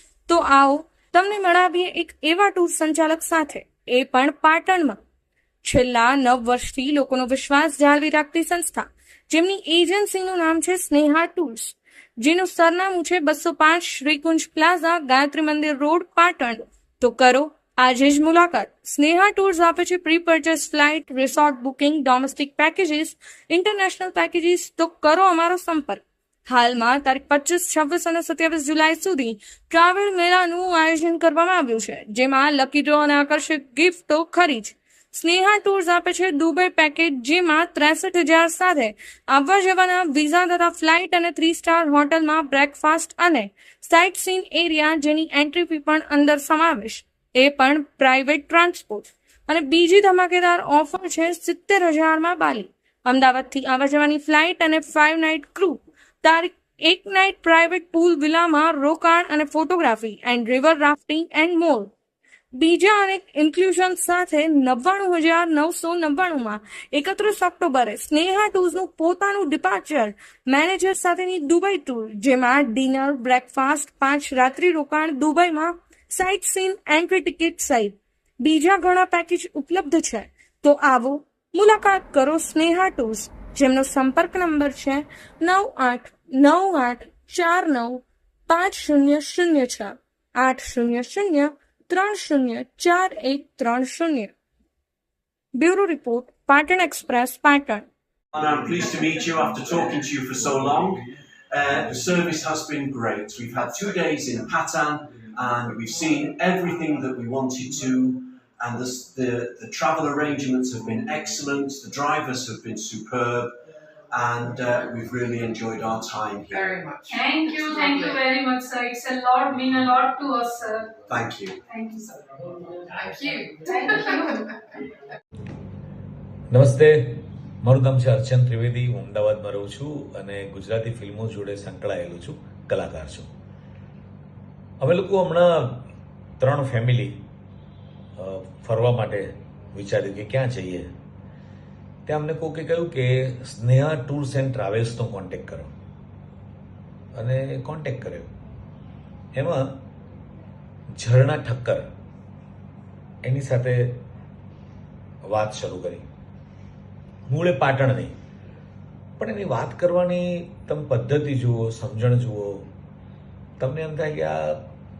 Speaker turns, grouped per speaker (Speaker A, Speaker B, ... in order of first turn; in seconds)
Speaker A: 0.3-5.0, 5.6-61.9, 62.5-94.3, 95.5-97.9
Speaker B: 98.3-113.5, 114.1-116.9, 121.1-121.6
Speaker C: 116.5-118.2, 123.0-124.4
Speaker D: 117.1-120.9, 121.7-122.2, 123.3-124.4
Speaker E: 126.5-133.3, 134.8-135.9, 136.4-137.2, 138.2-140.9, 142.1-145.7, 147.2-148.3, 149.3-149.7, 151.0-151.9, 153.2-154.0, 155.3-156.0, 157.3-158.1, 159.2-162.7, 163.6-164.6